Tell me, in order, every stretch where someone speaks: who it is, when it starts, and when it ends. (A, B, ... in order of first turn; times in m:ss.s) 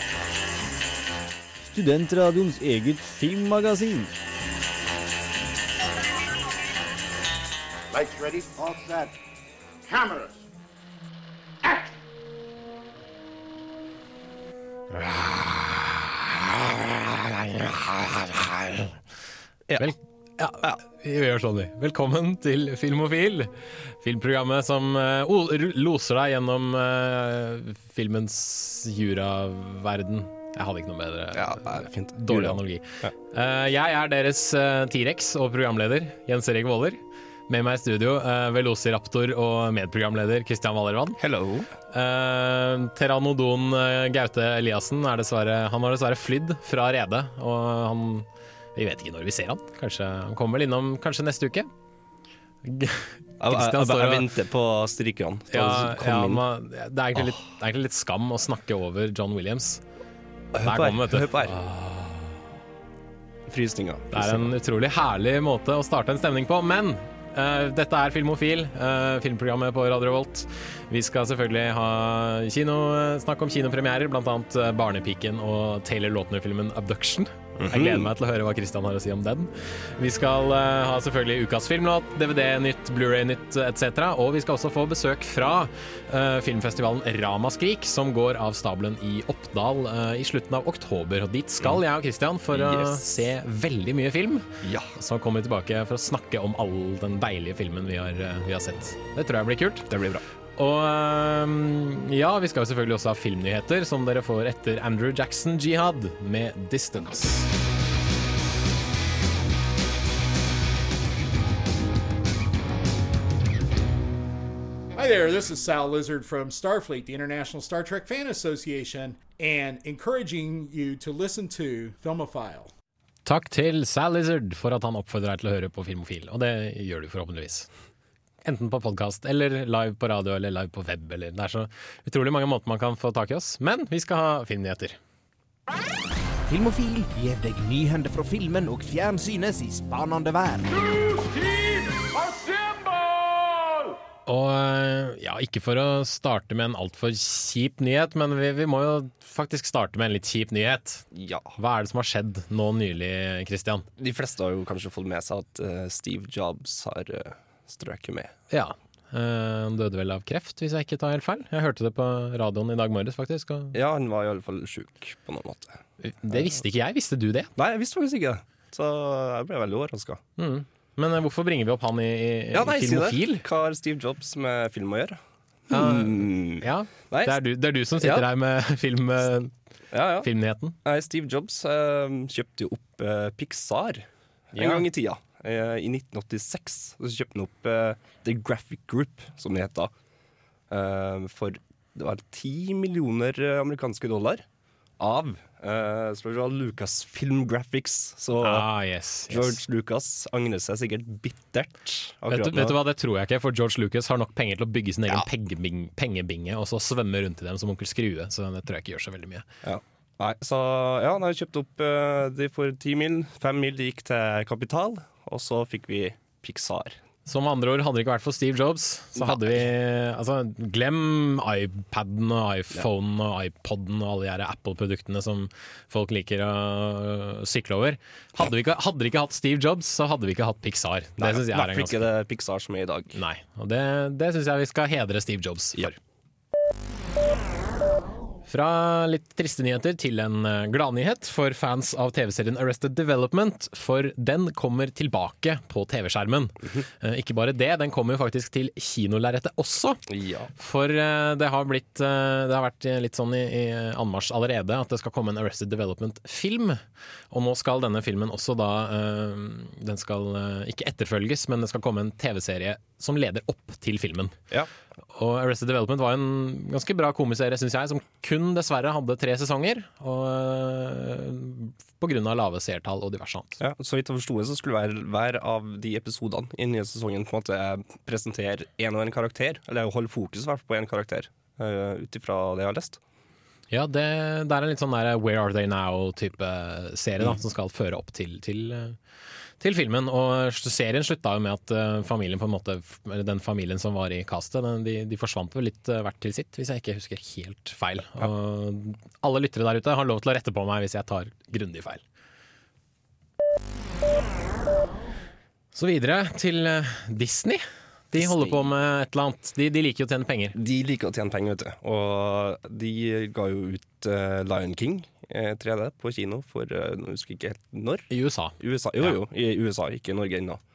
0:01.6-0:04.1 A
0:07.9-0:09.2 B
0:09.8-0:10.4 B
0:11.6-0:11.9 B
0:14.9-0:16.6 C
0:17.3-0:18.9 C
0:19.8-0:41.2 C
0:31.3-0:33.1 D
0:41.2-0:41.7 D
0:41.9-0:51.7 C
0:52.6-0:54.3 C
0:53.4-0:56.4 D
0:55.5-0:59.8 C
1:00.5-1:01.6 D
1:00.6-1:02.4 C
1:03.5-1:04.5 D
1:04.1-1:39.9 C
1:17.6-1:18.1 D
1:32.5-1:33.1 D
1:34.6-1:34.9 D
1:39.9-1:40.2 D
1:40.6-1:47.5 C
1:55.0-2:02.7 E
2:03.2-2:07.7 C
2:08.4-2:15.0 C
2:16.5-2:20.7 F
2:24.3-2:33.8 C
2:31.2-2:31.5 D
2:34.0-2:38.3 D
2:38.5-2:43.7 C
2:43.7-2:45.8 D
2:46.0-2:47.5 C
2:47.6-2:50.2 D
2:50.4-2:53.4 C
2:52.5-2:55.2 D
2:55.7-2:57.3 D
2:55.7-2:59.5 C
2:58.0-2:58.3 D
2:59.9-3:00.3 D
3:00.2-3:00.8 C
3:00.8-3:09.9 D
3:04.6-3:04.8 C
3:10.7-3:14.4 D
3:15.0-3:18.7 D
3:18.4-3:19.6 C
3:19.3-3:22.8 D
3:22.3-3:29.5 C
3:29.6-3:37.0 D
3:37.3-3:52.1 C
3:39.2-3:39.7 D
3:51.2-3:53.2 D
3:53.1-3:56.0 C
3:58.5-4:10.0 C
4:10.1-4:10.5 D
4:10.6-4:16.8 C
4:17.3-4:24.4 C
4:25.1-4:33.6 C
4:33.6-4:43.0 D
4:43.7-4:49.0 C
4:49.6-5:02.0 C
5:05.8-5:10.5 C
5:08.2-5:08.6 D
5:10.6-5:20.6 D
5:18.1-5:19.2 C